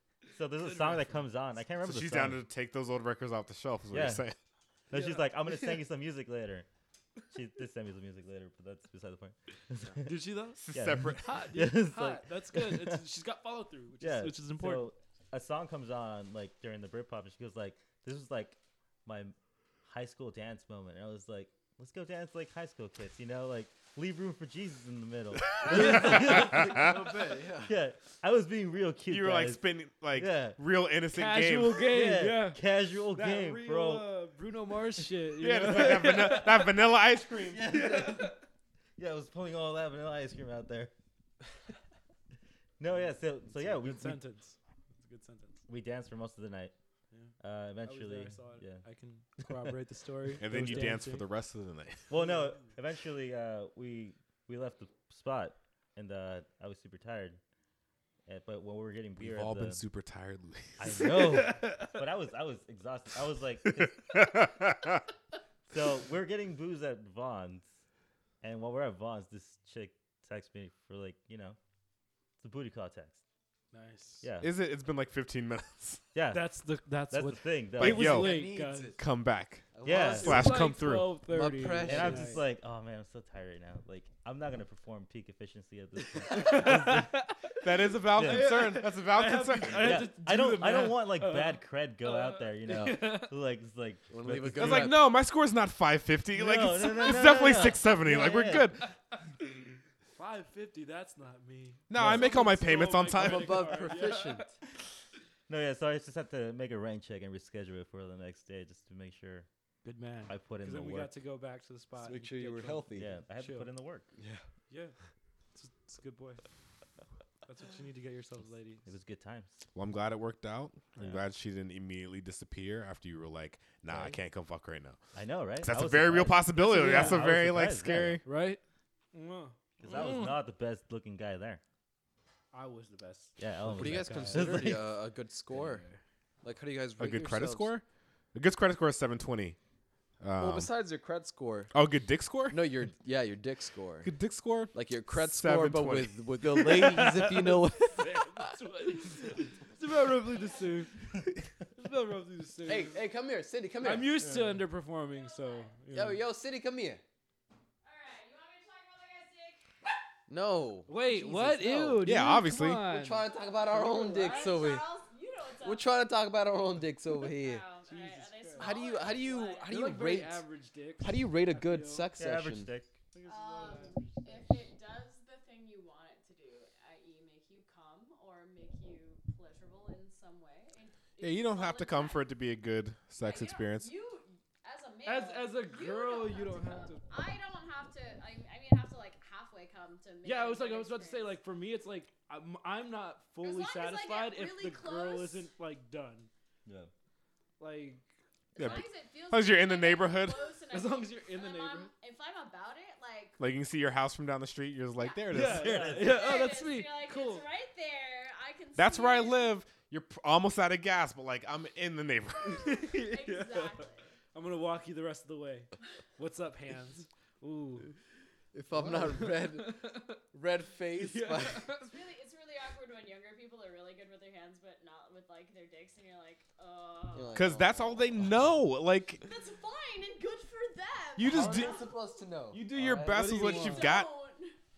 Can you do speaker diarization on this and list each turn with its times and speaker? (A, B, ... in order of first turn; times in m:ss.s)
0:00.3-0:02.4 A
0:00.6-0:01.2 B
0:01.8-0:04.4 C
0:03.9-0:04.2 A
0:04.9-0:06.7 A
0:04.9-0:05.8 B
0:07.3-0:13.0 A
0:10.0-0:10.6 B
0:10.6-0:11.4 C
0:11.2-0:14.9 B
0:14.0-0:19.4 A
0:19.9-0:29.6 A
0:25.5-0:26.9 C
0:25.6-0:26.5 B
0:26.7-0:27.7 D
0:29.1-0:31.8 C
0:30.1-0:30.6 A
0:31.1-0:32.6 B
0:31.8-0:34.1 A
0:33.1-0:36.7 B
0:35.4-0:37.8 C
0:37.5-0:38.4 A
0:37.7-0:38.4 B
0:39.0-0:40.9 A
0:42.8-0:44.2 A
0:43.5-0:45.6 B
0:45.7-0:46.7 A
0:47.1-0:51.3 B
0:47.4-0:48.8 A
0:49.4-0:49.7 A
0:50.4-0:52.1 C
0:52.1-0:57.4 A
0:52.1-0:52.7 B
0:58.2-0:59.8 A
0:59.2-1:00.8 C
1:00.8-1:04.2 A
1:00.9-1:01.9 B
1:03.6-1:05.0 C
1:05.7-1:07.8 A
1:08.4-1:11.6 A
1:12.4-1:13.2 A
1:13.7-1:14.2 B
1:14.2-1:14.5 A
1:14.4-1:16.0 C
1:16.1-1:16.6 A
1:16.3-1:18.9 B
1:17.1-1:18.1 A
1:17.8-1:21.2 C
1:18.0-1:19.0 D
1:19.7-1:20.6 D
1:19.8-1:20.5 A
1:19.9-1:22.4 B
1:21.2-1:22.5 D
1:21.8-1:27.2 A
1:26.2-1:27.4 B
1:27.6-1:30.1 C
1:28.1-1:28.7 A
1:28.2-1:33.3 B
1:29.6-1:35.0 A
1:32.6-1:33.2 D
1:34.1-1:35.0 D
1:34.5-1:38.9 C
1:36.4-1:38.7 A
1:40.2-1:44.5 B
1:41.9-1:43.8 C
1:43.1-1:44.6 D
1:45.5-1:49.5 A
1:49.8-1:53.7 B
1:50.2-1:51.1 A
1:52.0-1:53.1 D
1:52.9-1:54.1 A
1:54.2-1:54.4 D
1:54.7-1:55.0 B
1:55.5-1:56.4 B
1:57.4-1:58.9 B
1:58.9-1:59.6 A
1:59.7-2:05.0 C
2:01.0-2:01.2 A
2:03.9-2:04.2 A
2:05.1-2:08.2 A
2:05.6-2:08.2 C
2:06.6-2:07.2 B
2:08.2-2:08.6 B
2:09.1-2:10.4 B
2:09.8-2:11.6 A
2:12.5-2:14.8 B
2:13.4-2:15.1 A
2:13.7-2:15.8 D
2:15.5-2:16.0 B
2:16.4-2:17.7 D
2:17.0-2:19.6 C
2:20.2-2:20.7 C
2:20.4-2:21.7 D
2:21.7-2:22.7 C
2:22.5-2:24.1 D
2:24.0-2:26.2 C
2:24.7-2:28.4 D
2:26.4-2:31.1 B
2:30.2-2:30.8 E
2:31.7-2:33.0 B
2:32.6-2:34.2 D
2:33.8-2:36.2 B
2:35.0-2:35.8 E
2:35.9-2:37.0 D
2:37.8-2:39.6 E
2:40.3-2:42.1 D
2:40.9-2:44.6 B
2:42.0-2:42.8 C
2:42.8-2:44.9 D
2:44.1-2:45.9 E
2:45.6-2:47.7 D
2:47.2-2:49.8 E
2:47.9-2:48.8 B
2:48.6-2:50.4 D
2:49.7-2:52.1 B
2:51.0-2:52.7 D
2:52.2-2:52.9 A
2:53.1-2:54.5 B
2:53.2-3:02.3 E
3:01.2-3:03.9 C
3:03.2-3:11.4 E
3:05.0-3:07.0 B
3:10.2-3:16.3 B
3:13.4-3:15.5 E
3:16.6-3:16.9 A
3:17.6-3:18.0 B
3:18.6-3:20.6 C
3:18.6-3:23.4 E
3:20.7-3:21.9 B
3:23.4-3:25.9 C
3:25.0-3:25.2 E
3:25.3-3:27.4 B
3:25.5-3:26.4 A
3:25.8-3:29.6 E
3:28.8-3:32.8 C
3:32.4-3:37.9 B
3:32.5-3:34.0 E
3:38.5-3:39.8 D
3:38.7-3:40.2 B
3:40.3-3:41.7 D
3:41.0-3:41.9 B
3:41.7-3:47.5 E
3:47.1-3:48.5 D
3:47.4-3:49.2 C
3:49.2-3:52.2 E
3:51.2-3:51.9 C
3:51.2-3:53.4 D
3:52.5-3:54.1 C
3:53.1-3:53.9 B
3:53.4-3:54.6 E